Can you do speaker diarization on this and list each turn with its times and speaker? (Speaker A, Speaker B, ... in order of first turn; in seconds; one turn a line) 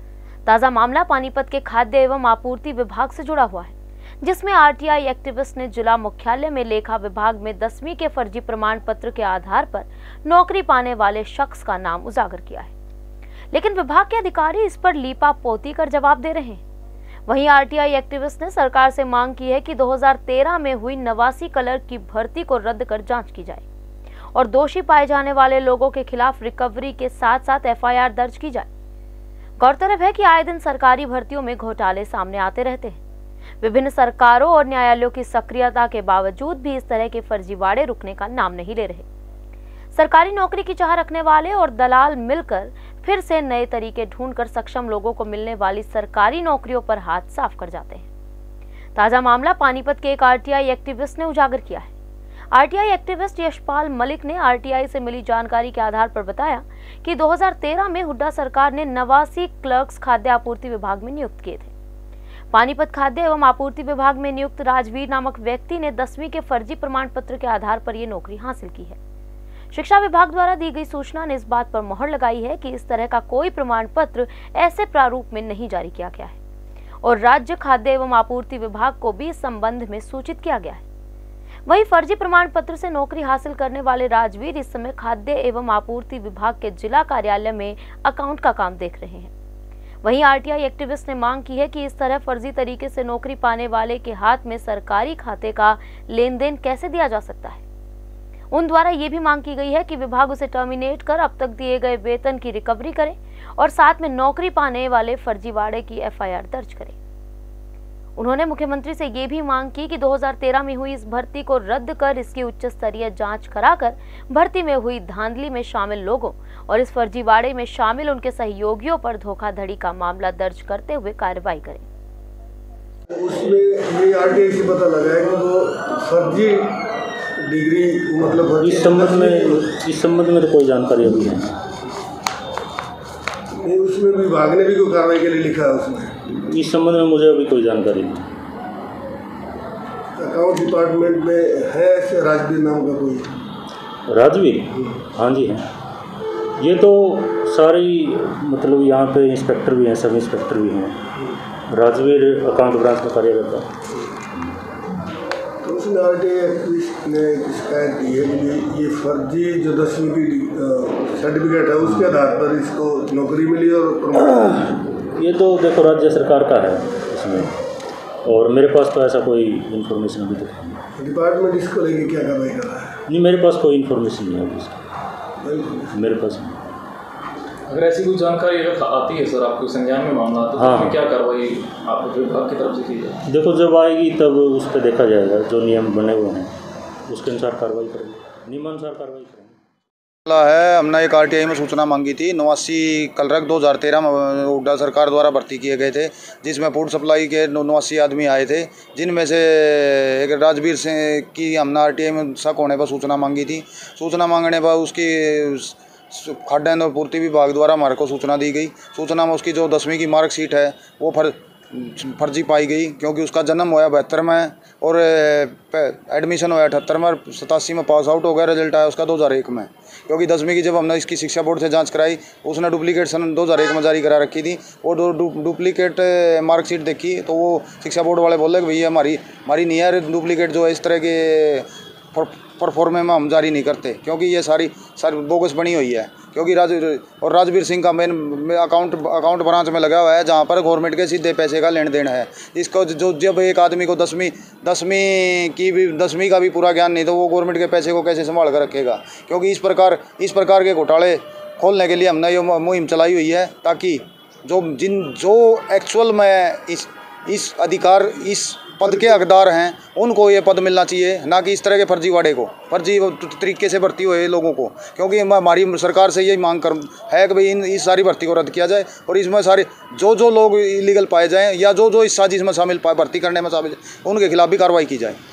Speaker A: 0.5-12.7
Speaker A: 13.5-16.6
Speaker A: 17.3-23.6
Speaker A: 24.3-28.7
Speaker A: 29.6-33.0
Speaker A: 33.6-39.0
Speaker A: 39.9-48.1
Speaker A: 48.9-51.9
Speaker A: 52.5-61.7
Speaker A: 62.5-69.0
Speaker A: 69.7-76.4
Speaker A: 77.0-80.8
Speaker A: 81.7-89.3
Speaker A: 90.0-97.6
Speaker A: 98.5-107.0
Speaker A: 108.2-121.8
Speaker B: 123.1-126.8
Speaker B: 127.4-129.7
Speaker C: 128.6-131.5
Speaker B: 133.6-136.2
Speaker C: 136.3-138.2
Speaker B: 140.2-143.3
Speaker C: 144.1-145.7
Speaker C: 146.6-150.9
Speaker C: 151.7-153.7
Speaker B: 155.6-164.7
Speaker C: 161.9-162.2
Speaker C: 165.1-167.5
Speaker C: 168.2-170.8
Speaker B: 170.9-173.0
Speaker C: 173.1-174.8
Speaker B: 175.4-175.9
Speaker C: 175.9-176.6
Speaker D: 177.7-183.1
Speaker C: 180.6-181.0
Speaker C: 183.2-186.5
Speaker C: 187.1-189.5
Speaker E: 190.3-275.2